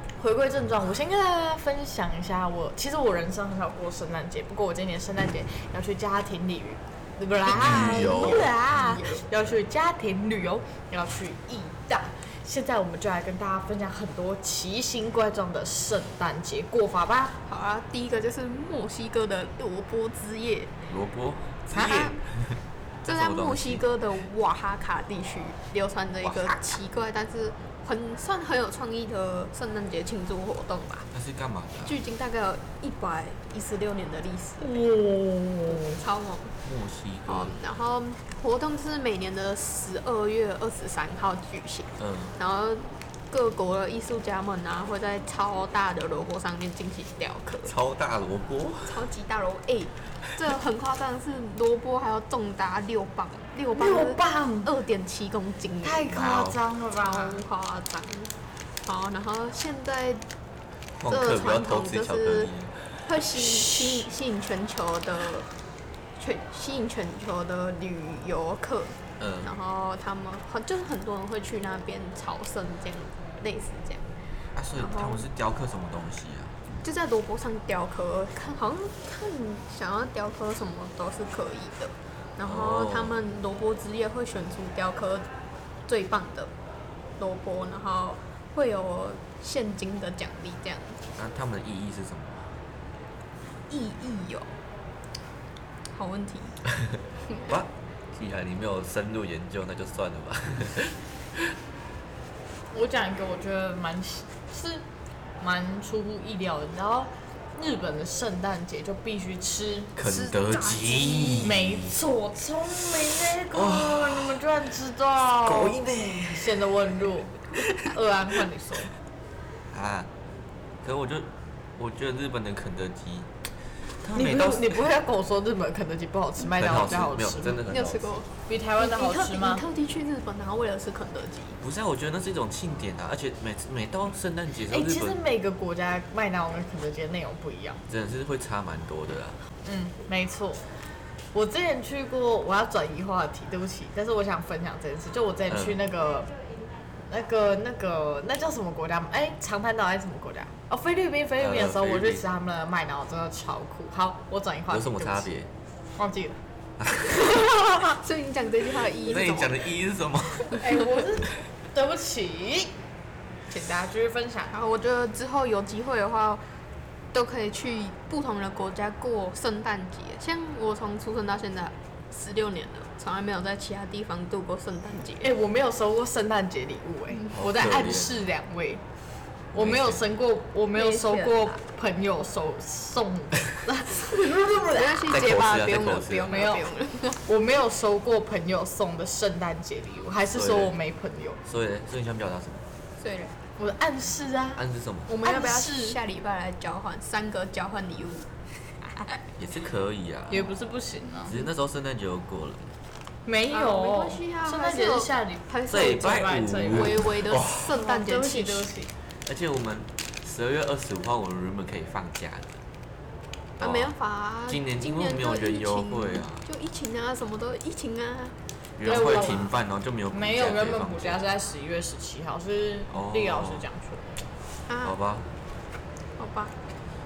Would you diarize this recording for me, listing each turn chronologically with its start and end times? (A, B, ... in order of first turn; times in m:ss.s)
0:00.2-0:17.4 A
0:07.5-0:09.0 B
0:08.3-0:09.3 C
0:17.4-0:20.7 C
0:20.9-0:23.8 B
0:21.7-0:22.1 A
0:23.0-0:31.1 C
0:26.2-0:26.8 B
0:31.1-0:32.0 B
0:31.8-0:34.8 C
0:34.6-0:36.0 A
0:35.7-0:36.6 C
0:36.6-0:37.6 B
0:37.2-0:47.7 C
0:42.0-0:42.3 B
0:47.6-0:49.1 B
0:48.8-0:56.2 C
0:53.7-0:54.7 A
0:55.8-0:57.4 A
0:56.1-0:56.6 B
0:57.0-1:00.2 C
1:01.0-1:03.7 B
1:01.1-1:02.5 C
1:03.0-1:05.5 C
1:06.2-1:14.1 C
1:09.2-1:09.5 B
1:14.6-1:16.6 B
1:14.8-1:15.3 C
1:16.8-1:25.3 C
1:22.4-1:23.2 B
1:25.9-1:26.5 C
1:27.2-1:31.0 C
1:31.1-1:32.5 B
1:33.7-1:34.6 C
1:35.9-1:36.6 C
1:37.3-1:37.5 C
1:37.5-1:41.5 B
1:42.7-1:44.8 A
1:45.4-1:49.9 A
1:50.0-1:52.0 B
1:50.0-1:51.5 C
1:51.4-1:55.8 A
1:53.5-1:54.5 B
1:55.4-1:57.7 B
1:56.3-1:58.9 A
1:59.7-2:00.1 B
2:00.8-2:03.3 B
2:03.9-2:04.8 B
2:04.1-2:07.7 A
2:06.4-2:08.2 B
2:07.7-2:11.6 C
2:08.4-2:09.6 A
2:11.6-2:15.2 B
2:14.7-2:17.8 A
2:17.9-2:19.4 B
2:19.6-2:20.6 A
2:21.3-2:26.3 A
2:25.5-2:25.8 B
2:27.1-2:35.3 A
2:31.4-2:32.2 B
2:34.7-2:35.5 B
2:36.0-2:36.4 A
2:36.8-2:37.5 B
2:37.8-2:39.7 C
2:38.9-2:40.7 B
2:40.5-2:42.7 A
2:43.5-2:44.5 A
2:44.5-2:46.4 C
2:47.1-2:55.3 C
2:55.2-2:58.8 A
2:57.3-2:58.2 B
2:59.5-3:00.0 B
2:59.5-3:05.2 A
3:00.7-3:01.6 C
3:04.7-3:07.2 C
3:05.1-3:06.4 B
3:06.2-3:06.7 A
3:07.2-3:11.4 A
3:10.3-3:10.8 B
3:11.4-3:12.7 B
3:13.0-3:13.3 C
3:13.6-3:16.0 A
3:14.6-3:15.1 B
3:15.1-3:18.8 C
3:19.4-3:20.5 B
3:20.3-3:21.3 A
3:21.2-3:22.7 B
3:23.2-3:27.0 A
3:23.5-3:28.7 C
3:25.7-3:27.8 B
3:27.6-3:28.9 A
3:29.2-3:32.6 B
3:33.6-3:33.9 B
3:33.6-3:38.4 C
3:34.5-3:36.5 B
3:38.8-3:41.2 B
3:38.8-3:39.5 A
3:39.0-3:39.3 C
3:40.1-3:44.2 A
3:42.9-3:43.6 B
3:44.7-3:44.9 C
3:44.8-3:45.3 B
3:46.2-3:46.6 C